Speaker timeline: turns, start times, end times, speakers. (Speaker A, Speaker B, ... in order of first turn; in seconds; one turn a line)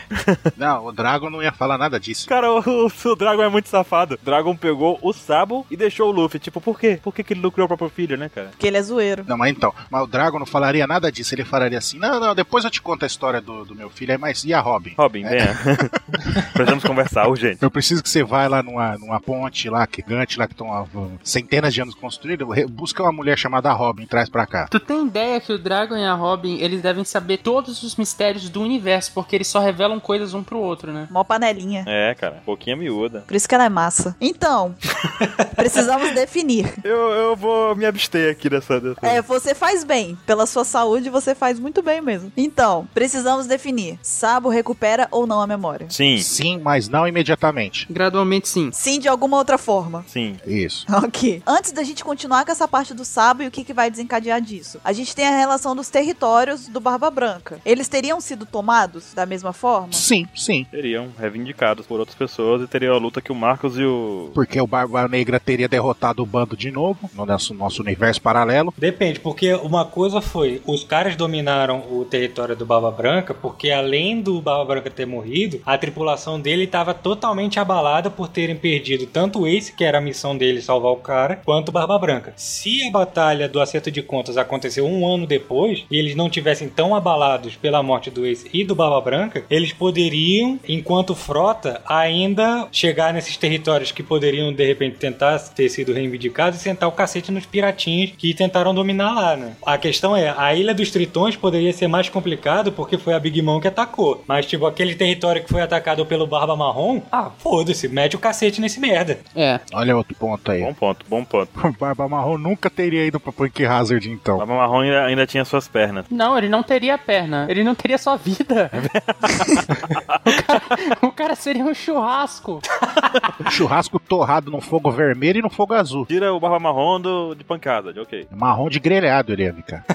Speaker A: 0.1-0.4
Speaker B: 0.6-2.3
Speaker A: 2.3-8.5
Speaker C: 8.6-9.3
Speaker B: 9.3-16.0
Speaker A: 15.0-15.9
Speaker A: 16.5-17.6
Speaker B: 17.6-24.7
Speaker D: 24.7-31.1
Speaker C: 31.1-31.9
Speaker A: 31.9-33.3
Speaker C: 33.3-34.8
Speaker C: 35.5-36.8
Speaker A: 36.8-39.2
Speaker C: 39.0-45.9
Speaker A: 45.9-46.3
Speaker B: 46.2-47.9
Speaker D: 47.9-48.7
Speaker C: 48.7-50.0
Speaker A: 50.1-50.4
Speaker B: 50.4-50.9
Speaker C: 50.9-60.0
Speaker B: 59.9-60.7
Speaker A: 60.7-64.4
Speaker B: 64.3-68.7
Speaker E: 68.8-109.2
Speaker D: 109.3-109.6
Speaker B: 109.7-110.7
Speaker A: 110.6-111.5
Speaker B: 111.6-114.4
Speaker A: 114.4-116.1
Speaker D: 116.1-118.8
Speaker A: 118.7-120.4
Speaker D: 120.3-122.6
Speaker B: 123.5-126.1
Speaker A: 126.1-128.3
Speaker B: 128.3-129.8